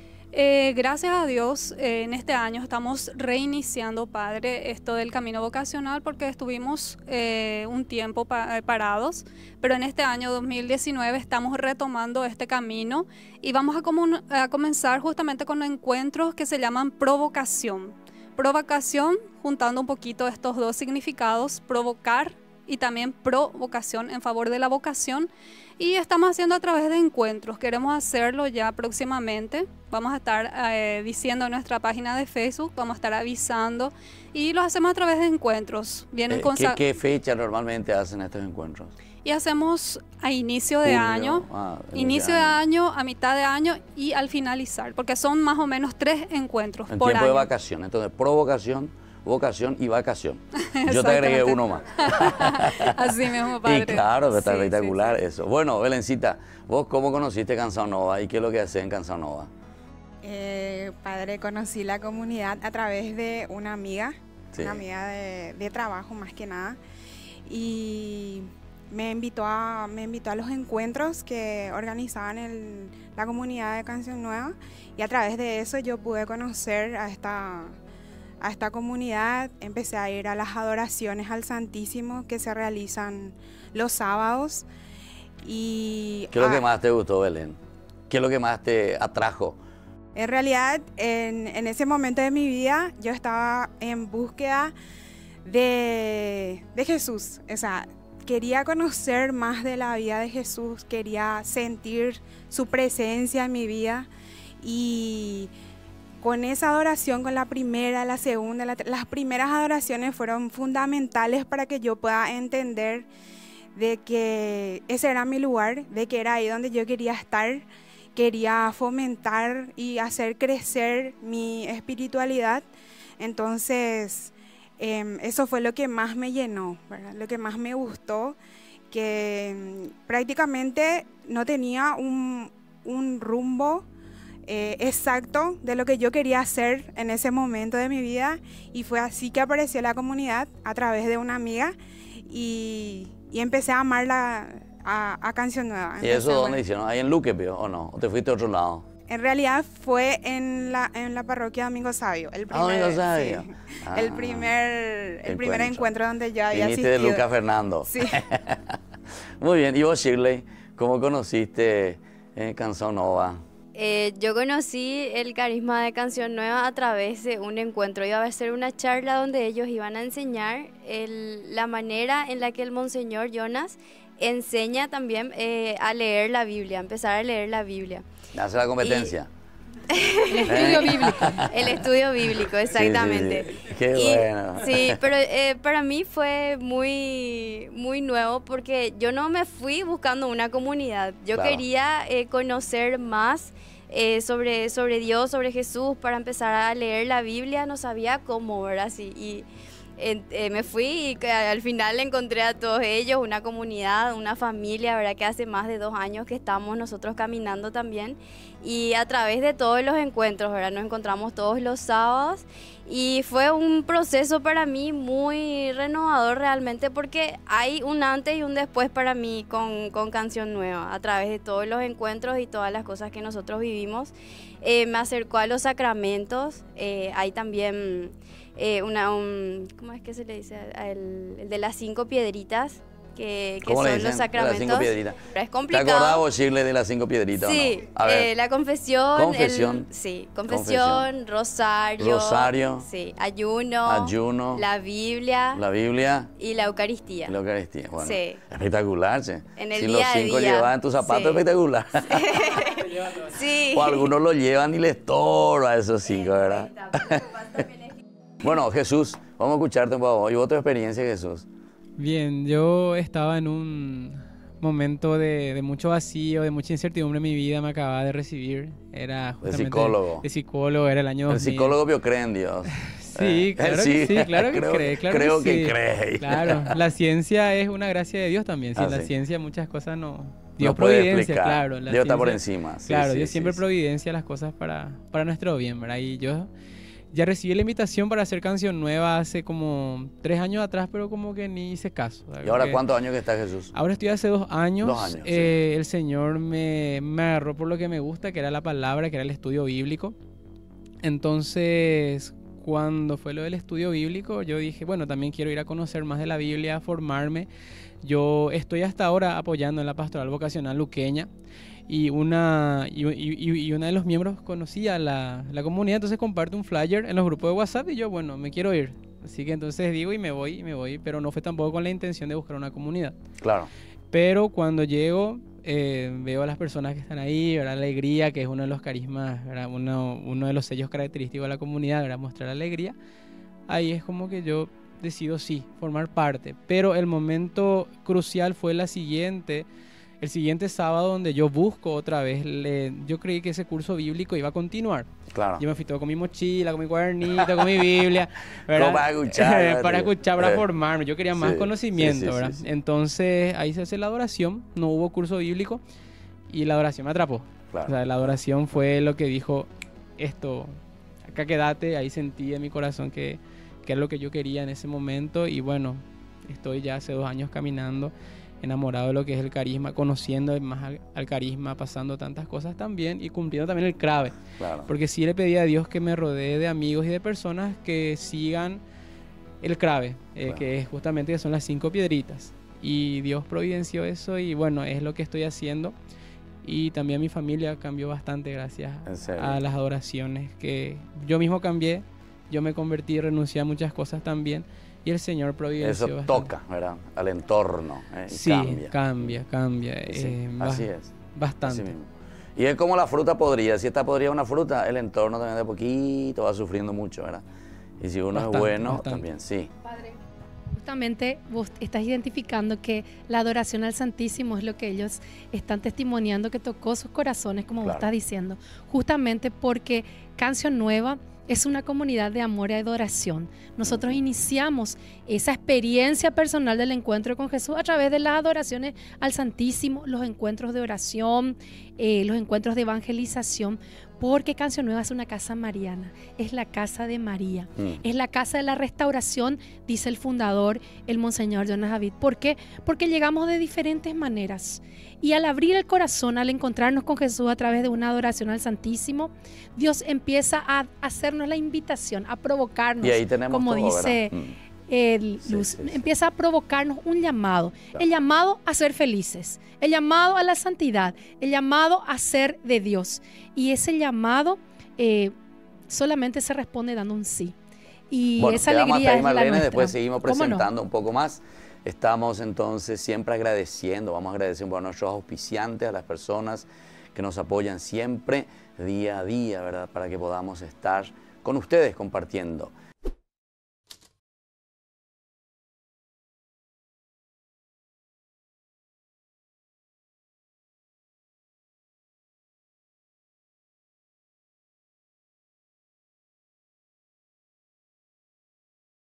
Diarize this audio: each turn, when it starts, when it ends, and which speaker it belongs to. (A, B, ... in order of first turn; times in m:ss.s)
0:00.3-0:36.8 A
0:36.3-0:38.9 B
0:39.2-0:47.5 A
0:40.8-0:42.6 B
0:46.9-0:53.1 B
0:50.8-0:55.2 A
0:53.6-0:59.5 B
1:00.2-1:06.8 C
1:04.5-1:04.8 B
1:07.5-1:17.8 C
1:18.4-1:24.7 C
1:25.4-1:26.6 C
1:26.3-1:29.6 B
1:30.2-1:34.7 C
1:35.4-1:44.1 C
1:44.6-1:45.5 C
1:46.2-1:53.1 C
1:53.8-2:02.6 C
2:03.2-2:08.4 C
2:08.9-2:13.9 C
2:14.5-2:26.6 C
2:26.0-2:28.9 B
2:29.1-2:37.3 C
2:32.5-2:34.6 B
2:35.2-2:35.8 B
2:36.5-2:38.8 B
2:37.9-2:38.2 C
2:39.4-2:43.4 B
2:43.8-2:58.1 D
2:58.3-2:59.3 B
2:58.8-2:59.1 D
2:59.9-3:19.5 D
3:00.3-3:01.3 E
3:00.5-3:01.8 B
3:02.6-3:05.0 B
3:11.3-3:11.6 B
3:20.0-3:56.2 D
3:53.6-3:58.3 B
3:57.4-4:05.6 D
3:59.1-3:59.9 B
4:00.5-4:01.1 B
4:02.0-4:02.9 B
4:03.8-4:04.6 B
4:05.5-4:06.3 B
4:06.4-4:07.4 D
4:07.3-4:12.6 B
4:08.0-4:08.4 D
4:09.6-4:11.4 D
4:12.1-4:14.1 D
4:13.7-4:17.4 B
4:16.7-4:17.0 D
4:18.4-4:21.5 B
4:22.0-4:31.8 F
4:29.4-4:30.3 B
4:31.3-4:36.8 B
4:33.0-4:46.5 F
4:38.8-4:39.1 B
4:40.6-4:43.6 B
4:47.1-4:52.8 F
4:52.4-4:53.7 B
4:53.7-5:00.2 F
4:54.8-4:55.6 B
5:01.0-5:07.5 F
5:08.0-5:11.3 F
5:11.9-5:23.2 F
5:23.4-5:23.7 B
5:24.1-5:33.0 F
5:33.7-5:39.7 F
5:40.2-5:55.8 F
5:45.3-5:45.7 B
5:47.4-5:48.0 B
5:48.7-5:50.6 B
5:51.3-5:52.6 B
5:56.5-6:18.8 F
5:57.7-5:58.0 B
6:14.6-6:14.9 B
6:19.6-6:26.0 F
6:26.6-6:36.5 F
6:29.0-6:29.6 B
6:35.8-6:39.4 B
6:38.3-6:41.9 F
6:40.1-6:47.4 B
6:48.0-6:49.7 B
6:48.3-6:49.3 F
6:50.8-7:34.4 E
6:57.8-6:58.1 B
7:03.9-7:04.2 B
7:33.0-7:34.6 B
7:34.9-7:45.4 E
7:35.4-7:36.0 B
7:45.9-7:47.6 E
7:48.1-7:50.7 E
7:48.4-8:02.7 B